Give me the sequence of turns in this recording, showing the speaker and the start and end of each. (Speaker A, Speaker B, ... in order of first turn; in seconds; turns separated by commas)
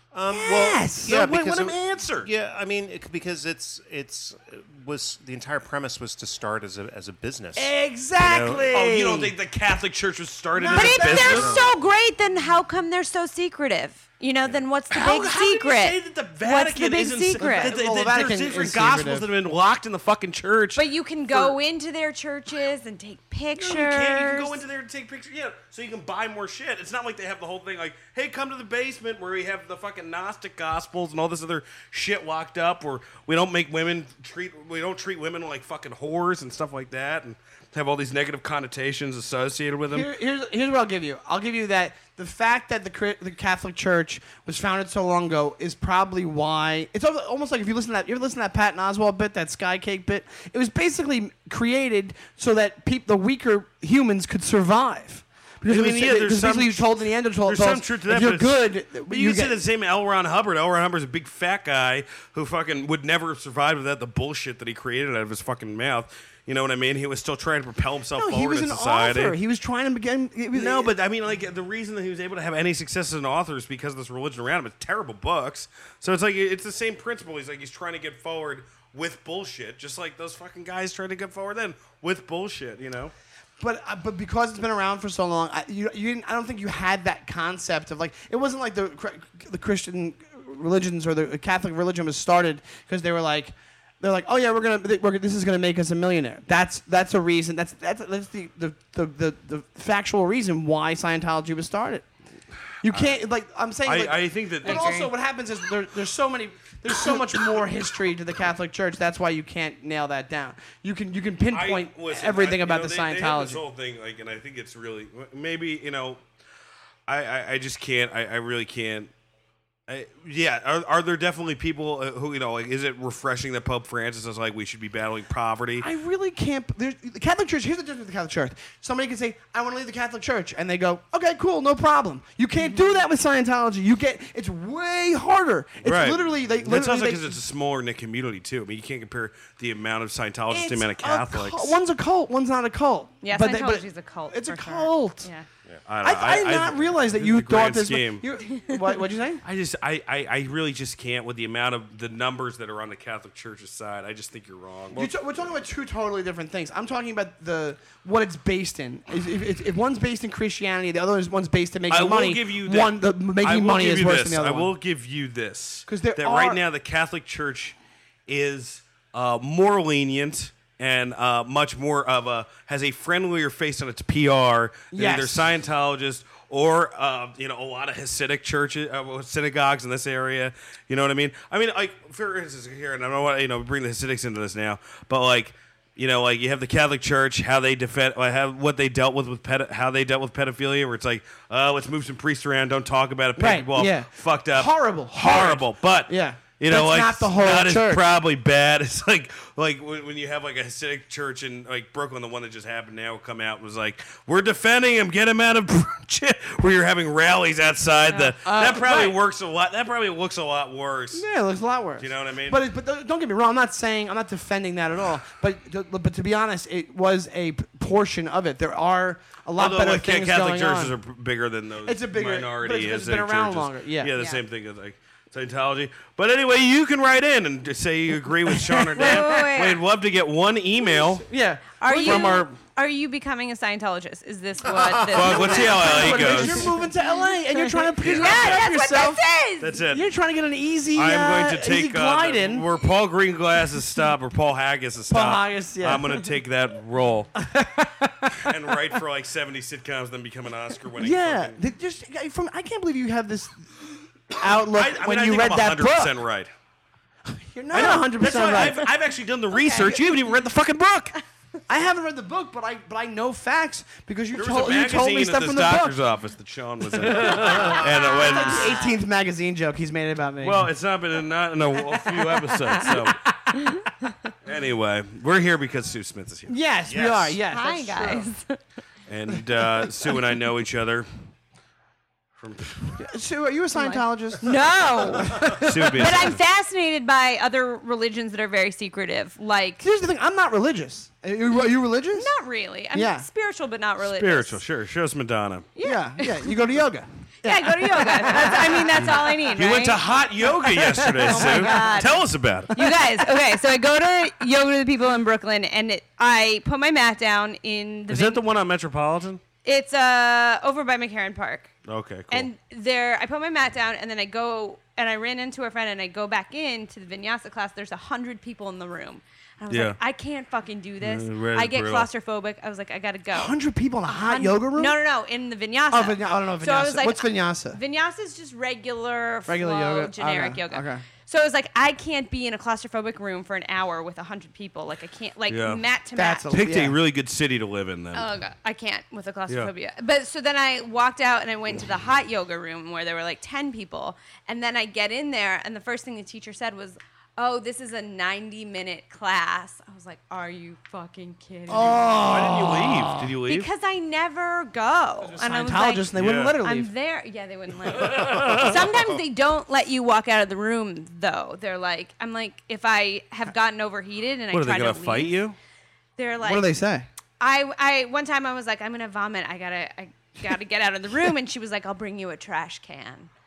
Speaker A: 0.1-8.8, Speaker B: 0.3-1.1, Speaker C: 1.1-2.3, Speaker B: 7.6-9.3, Speaker C: 8.7-11.7, Speaker B: 10.6-11.7, Speaker D: 10.7-17.7, Speaker A: 11.3-11.6, Speaker C: 14.9-21.6, Speaker B: 17.4-19.3, Speaker D: 20.8-24.6, Speaker C: 23.6-40.1, Speaker B: 39.9-59.6, Speaker C: 55.6-56.9, Speaker C: 57.5-69.4, Speaker B: 68.1-70.9, Speaker C: 70.5-83.1, Speaker B: 83.6-102.0, Speaker B: 102.8-113.6, Speaker C: 102.9-103.2, Speaker C: 103.8-105.0, Speaker D: 104.6-105.1, Speaker C: 111.5-116.2, Speaker C: 117.1-119.1, Speaker C: 119.9-125.9, Speaker B: 125.8-137.3, Speaker D: 132.6-133.0, Speaker C: 135.8-141.8, Speaker B: 140.5-145.3, Speaker D: 143.2-145.4, Speaker C: 145.9-148.2, Speaker B: 146.0-149.4, Speaker C: 149.4-155.1, Speaker B: 154.9-164.7, Speaker C: 161.9-167.8, Speaker B: 165.9-166.6, Speaker C: 168.3-211.2, Speaker B: 174.9-175.5, Speaker B: 193.4-198.0, Speaker B: 208.4-209.2, Speaker B: 211.1-220.9, Speaker C: 212.0-212.6, Speaker C: 219.6-231.3, Speaker B: 221.8-224.1, Speaker D: 224.1-224.4, Speaker B: 228.5-229.5, Speaker D: 229.0-229.8, Speaker B: 231.2-232.5, Speaker D: 231.8-236.8, Speaker C: 232.0-232.6, Speaker C: 235.0-236.7, Speaker B: 235.2-239.2, Speaker D: 237.6-239.8, Speaker C: 238.0-238.6, Speaker C: 239.6-240.1, Speaker B: 239.9-242.7, Speaker C: 240.9-247.3, Speaker B: 245.1-246.1, Speaker B: 247.4-248.6, Speaker C: 248.4-251.6, Speaker B: 251.0-256.1, Speaker C: 254.6-256.5, Speaker B: 257.3-258.9, Speaker C: 257.7-261.2, Speaker D: 259.5-260.0, Speaker B: 261.7-265.9, Speaker C: 264.4-268.8, Speaker B: 266.9-270.7, Speaker D: 267.4-268.9, Speaker C: 270.4-273.2, Speaker B: 272.1-273.7, Speaker D: 273.7-274.1, Speaker C: 274.4-276.5, Speaker B: 276.5-278.3, Speaker A: 276.9-277.4, Speaker D: 277.5-278.6, Speaker C: 279.1-281.1, Speaker C: 282.4-283.0, Speaker B: 283.0-284.6, Speaker D: 283.8-289.8, Speaker B: 285.2-286.3, Speaker C: 285.4-286.4, Speaker B: 289.8-292.3, Speaker D: 292.1-294.6, Speaker B: 292.9-293.3, Speaker C: 294.0-295.7, Speaker D: 295.8-296.5, Speaker B: 295.8-299.1, Speaker D: 297.4-300.0, Speaker C: 298.9-302.8, Speaker B: 300.6-302.0, Speaker D: 301.3-308.4, Speaker C: 308.1-309.4, Speaker D: 309.6-311.7, Speaker C: 311.9-312.5, Speaker D: 312.3-323.5, Speaker C: 319.7-320.0, Speaker C: 321.0-322.1, Speaker B: 323.3-325.0, Speaker D: 324.1-336.5, Speaker B: 325.9-327.8, Speaker B: 329.5-331.0, Speaker C: 335.5-335.8, Speaker B: 336.1-337.0, Speaker C: 336.5-338.3, Speaker D: 338.1-352.6, Speaker B: 351.7-353.3, Speaker C: 352.2-353.7, Speaker D: 353.4-365.4, Speaker B: 355.2-356.9, Speaker C: 356.1-356.6, Speaker C: 357.9-359.1, Speaker C: 364.5-365.6, Speaker D: 366.2-366.6, Speaker B: 366.4-367.1, Speaker D: 367.4-373.3